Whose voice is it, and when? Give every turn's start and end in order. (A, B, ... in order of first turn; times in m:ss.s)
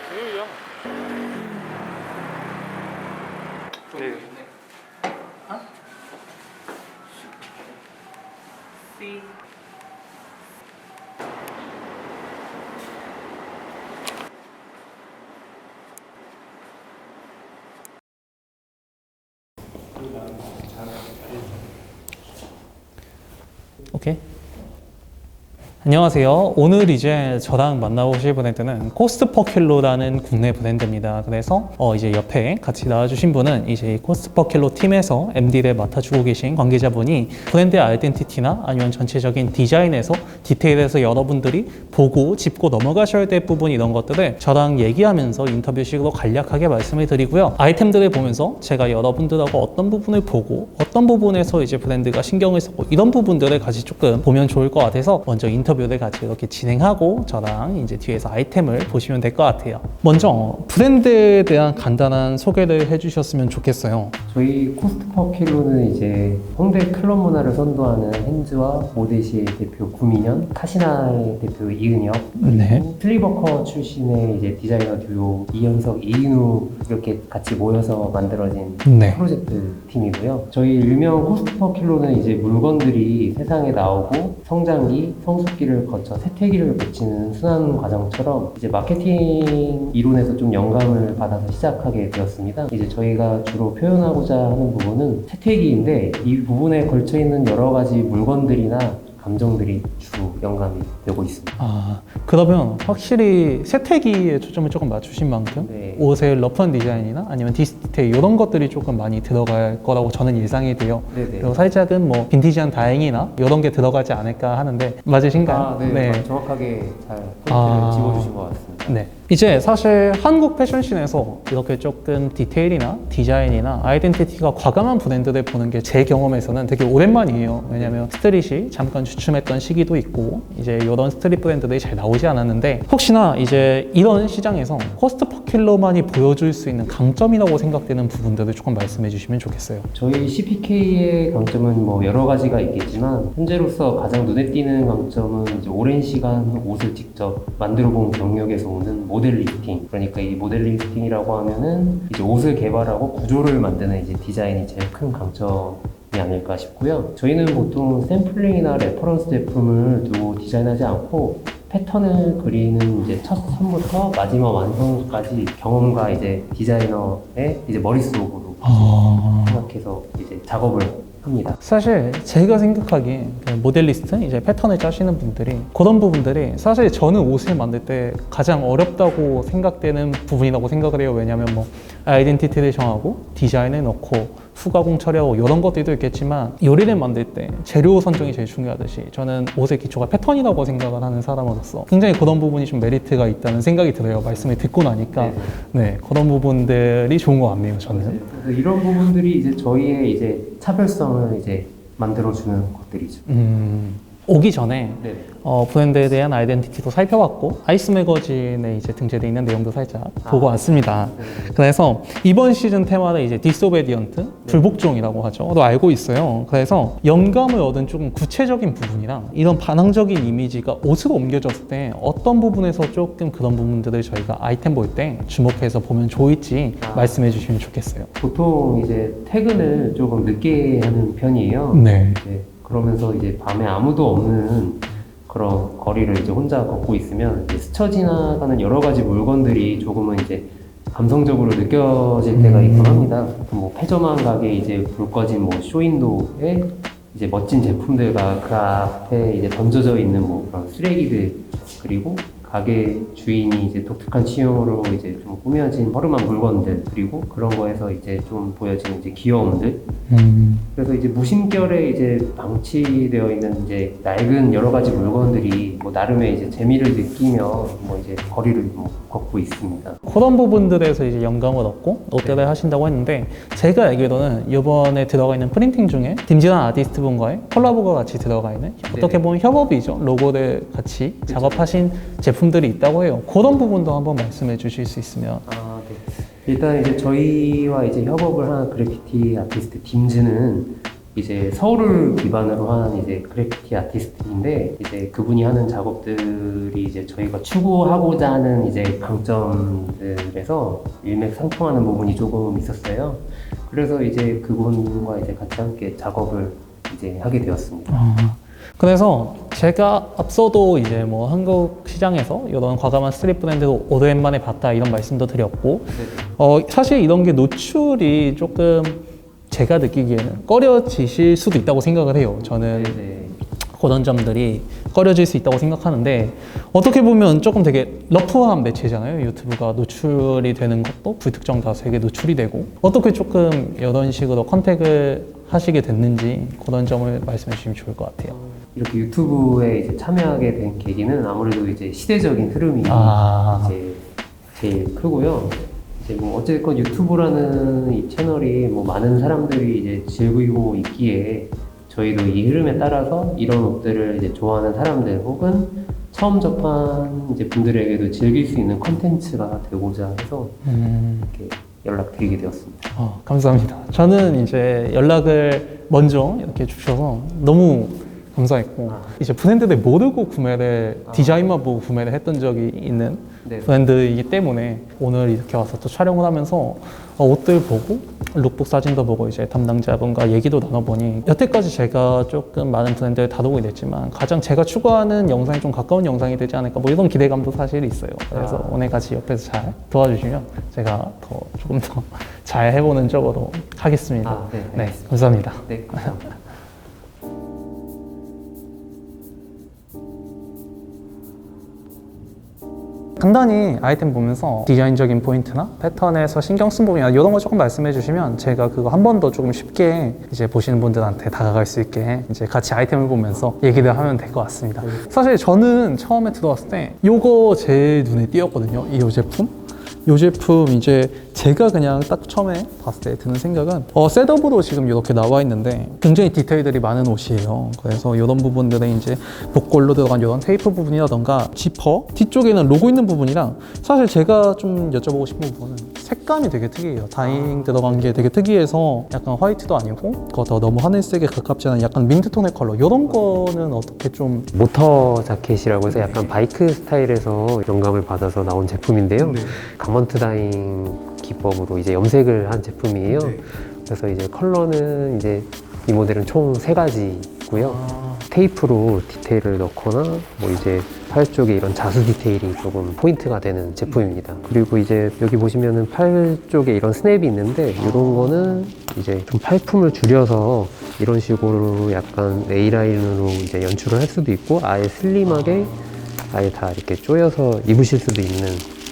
0:03.9-0:04.3 A
0:23.9-0:24.2 A
0:25.8-1:04.2 A
1:04.3-1:41.6 B
1:12.4-1:12.8 A
1:18.8-1:19.2 A
1:41.6-1:56.3 A
1:45.5-1:46.1 B
1:51.1-1:51.6 B
1:55.4-1:59.0 B
1:57.5-1:58.4 A
1:58.9-2:19.9 A
2:07.8-2:08.0 B
2:19.9-2:51.6 B
2:48.6-2:49.7 A
2:51.6-3:18.2 A
3:15.2-3:15.6 B
3:17.9-3:23.2 B
3:23.3-3:48.1 A
3:25.0-3:25.3 B
3:30.2-3:31.6 B
3:46.8-3:47.2 B
3:48.2-4:19.8 B
3:51.7-3:52.2 A
4:02.3-4:03.1 A
4:20.1-4:20.7 A
4:20.8-4:30.0 B
4:30.0-4:45.4 A
4:32.2-4:32.5 B
4:38.9-4:39.2 B
4:41.3-4:41.7 B
4:45.5-5:08.0 B
5:07.9-5:23.1 A
5:15.9-5:16.2 B
5:22.4-5:23.4 B
5:23.7-5:38.4 A
5:38.3-5:44.0 B
5:42.8-5:43.8 A
5:44.6-6:00.6 B
6:00.6-6:01.3 A
6:01.3-6:02.9 B
6:03.0-6:36.2 A
6:08.9-6:09.2 B
6:11.1-6:11.6 B
6:13.4-6:13.8 B
6:28.3-6:28.8 B
6:34.2-6:36.4 B
6:43.2-6:59.5 A
7:00.0-7:24.5 A
7:17.2-7:18.3 B
7:24.5-7:55.7 B
7:25.9-7:26.4 A
7:29.2-7:29.6 A
7:33.1-7:33.4 A
7:37.5-7:38.3 A
7:47.8-7:48.6 A
7:55.2-7:56.0 A
7:56.3-7:58.7 B